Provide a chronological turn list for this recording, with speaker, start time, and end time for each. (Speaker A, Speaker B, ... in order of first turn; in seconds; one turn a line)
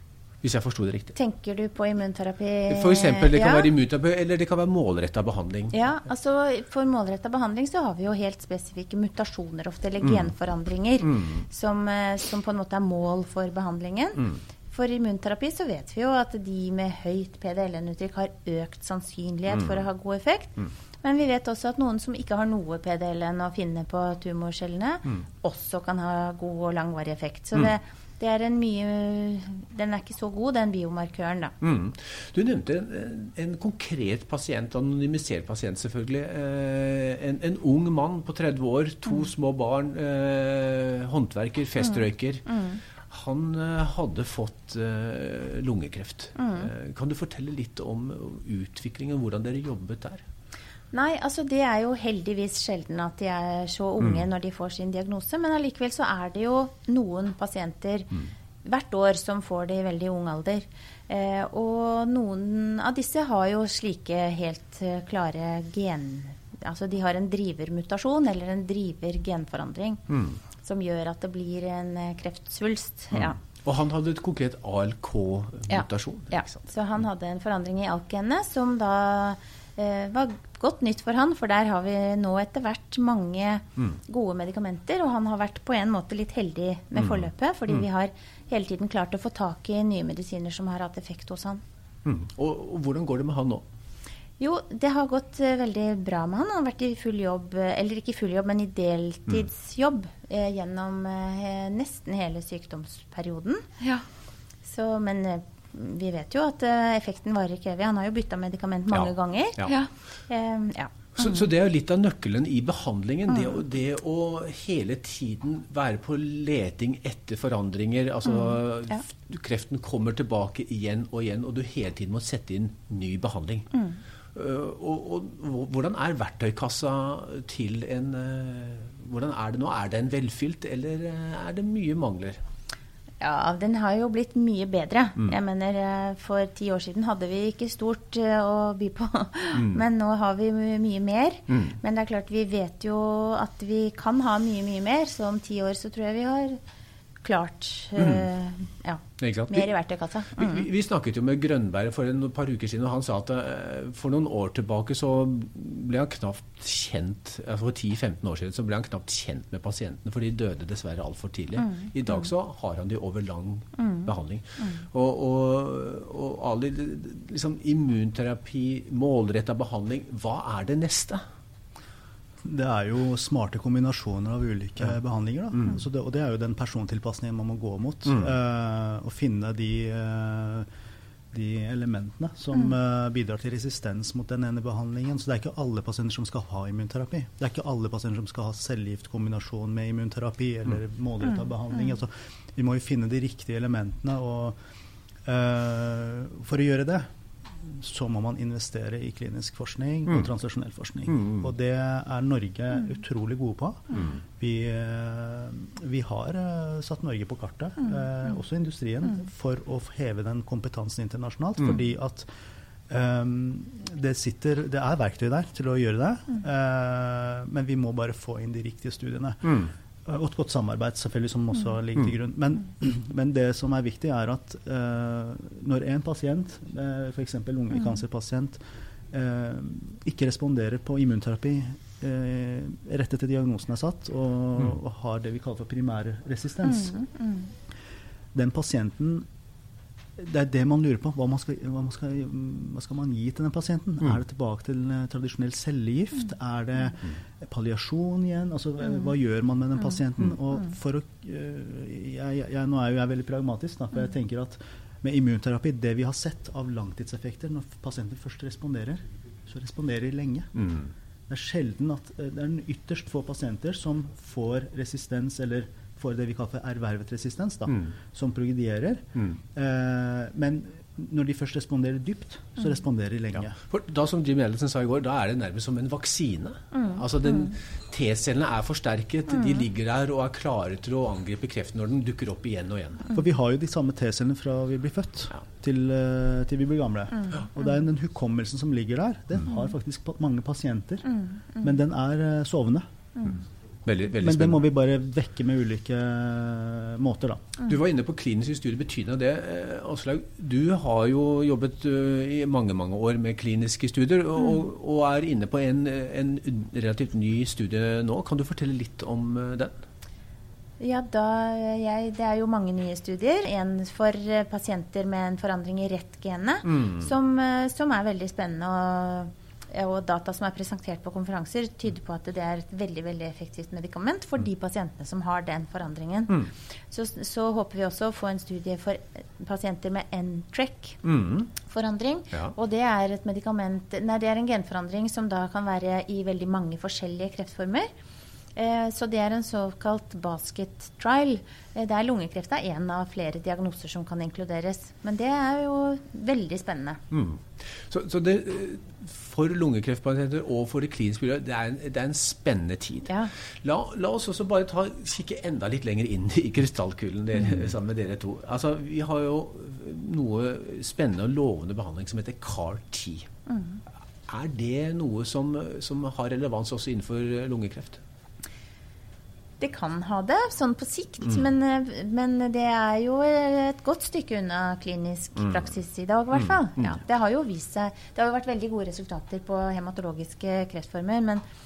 Speaker A: 0.4-1.1
Speaker B: 1.1-3.7
Speaker A: 2.7-5.8
Speaker B: 5.7-31.5
Speaker A: 11.1-11.4
Speaker A: 31.6-42.5
Speaker B: 42.0-42.8
Speaker A: 43.1-50.2
Speaker B: 46.4-46.7
Speaker B: 50.9-70.0
Speaker A: 70.1-70.4
Speaker B: 70.6-73.4
Speaker A: 73.1-76.7
Speaker B: 75.7-91.6
Speaker A: 92.0-93.6
Speaker B: 94.4-104.0
Speaker B: 104.7-111.2
Speaker A: 108.9-109.8
Speaker A: 111.2-123.7
Speaker A: 124.3-132.4
Speaker B: 133.2-146.6
Speaker A: 139.5-139.8
Speaker A: 141.5-141.8
Speaker B: 147.2-150.7
Speaker A: 148.0-148.3
Speaker A: 149.2-149.7
Speaker A: 150.3-171.2
Speaker B: 161.6-162.3
Speaker B: 163.8-164.8
Speaker C: 172.4-180.7
Speaker C: 181.3-194.6
Speaker C: 195.3-197.1
Speaker C: 197.7-212.3
Speaker A: 201.1-201.4
Speaker C: 212.9-228.6
Speaker B: 227.7-228.0
Speaker C: 229.1-237.0
Speaker B: 236.6-237.5
Speaker C: 238.3-239.2
Speaker C: 240.2-260.6
Speaker A: 260.6-260.9
Speaker C: 261.3-269.0
Speaker C: 269.5-273.6
Speaker A: 273.6-283.1
Speaker B: 276.7-277.5
Speaker B: 279.3-279.6
Speaker C: 283.1-292.9
Speaker B: 287.2-287.6
Speaker B: 291.1-291.7
Speaker A: 293.9-294.6
Speaker C: 294.2-297.4
Speaker A: 297.6-309.8
Speaker B: 310.8-331.0
Speaker A: 316.7-317.1
Speaker A: 331.0-331.5
Speaker B: 331.6-337.9
Speaker B: 338.6-347.0
Speaker A: 347.1-363.3
Speaker B: 363.5-363.8
Speaker A: 364.3-368.0
Speaker B: 369.6-381.4